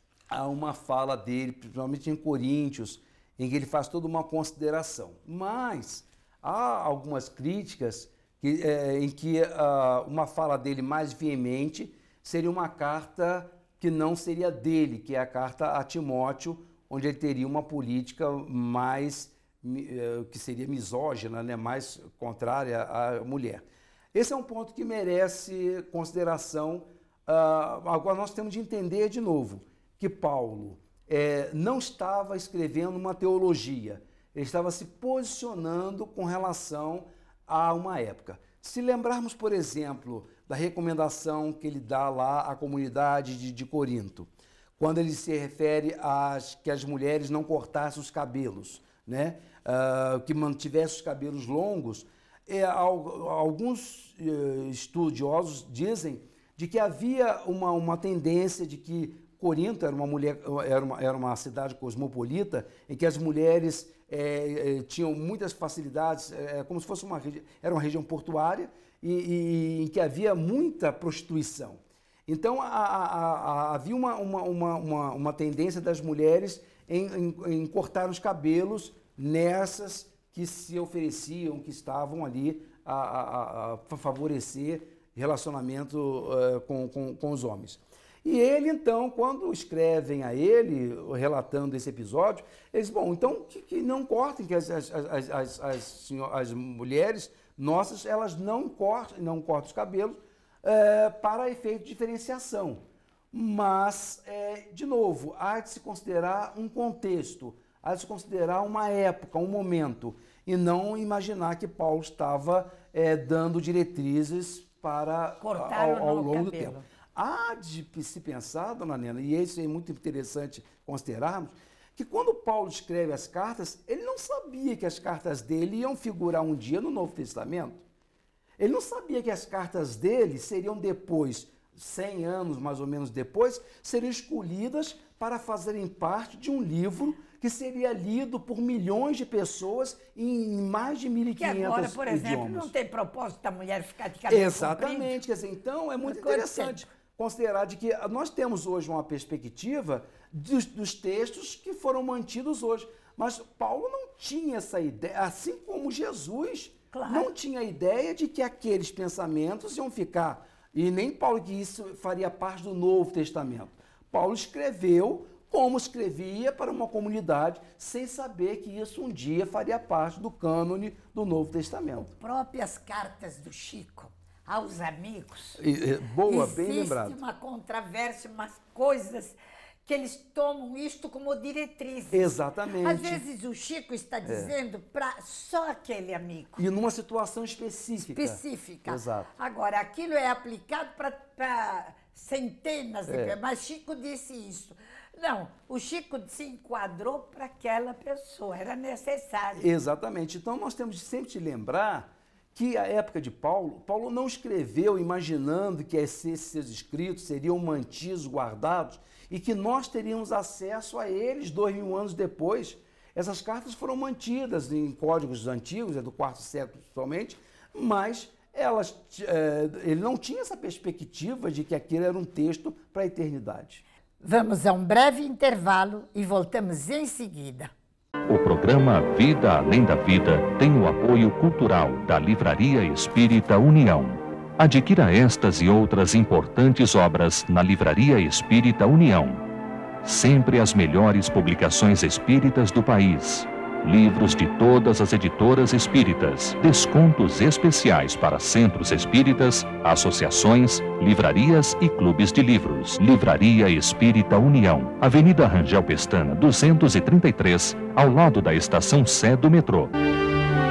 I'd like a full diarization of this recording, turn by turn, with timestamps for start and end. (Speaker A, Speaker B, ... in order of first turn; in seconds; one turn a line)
Speaker A: 0.3-127.8
Speaker B: 115.4-116.8
Speaker A: 128.6-142.7
Speaker B: 141.4-145.2
Speaker A: 144.3-172.1
Speaker B: 146.0-146.9
Speaker B: 156.9-157.3
Speaker B: 172.0-175.6
Speaker A: 175.6-177.2
Speaker B: 176.3-186.7
Speaker A: 182.1-183.2
Speaker A: 184.2-184.5
Speaker A: 186.6-189.3
Speaker B: 188.0-199.7
Speaker A: 193.1-193.4
Speaker A: 199.6-223.8
Speaker B: 224.2-227.7
Speaker C: 228.3-239.4
Speaker C: 240.0-259.9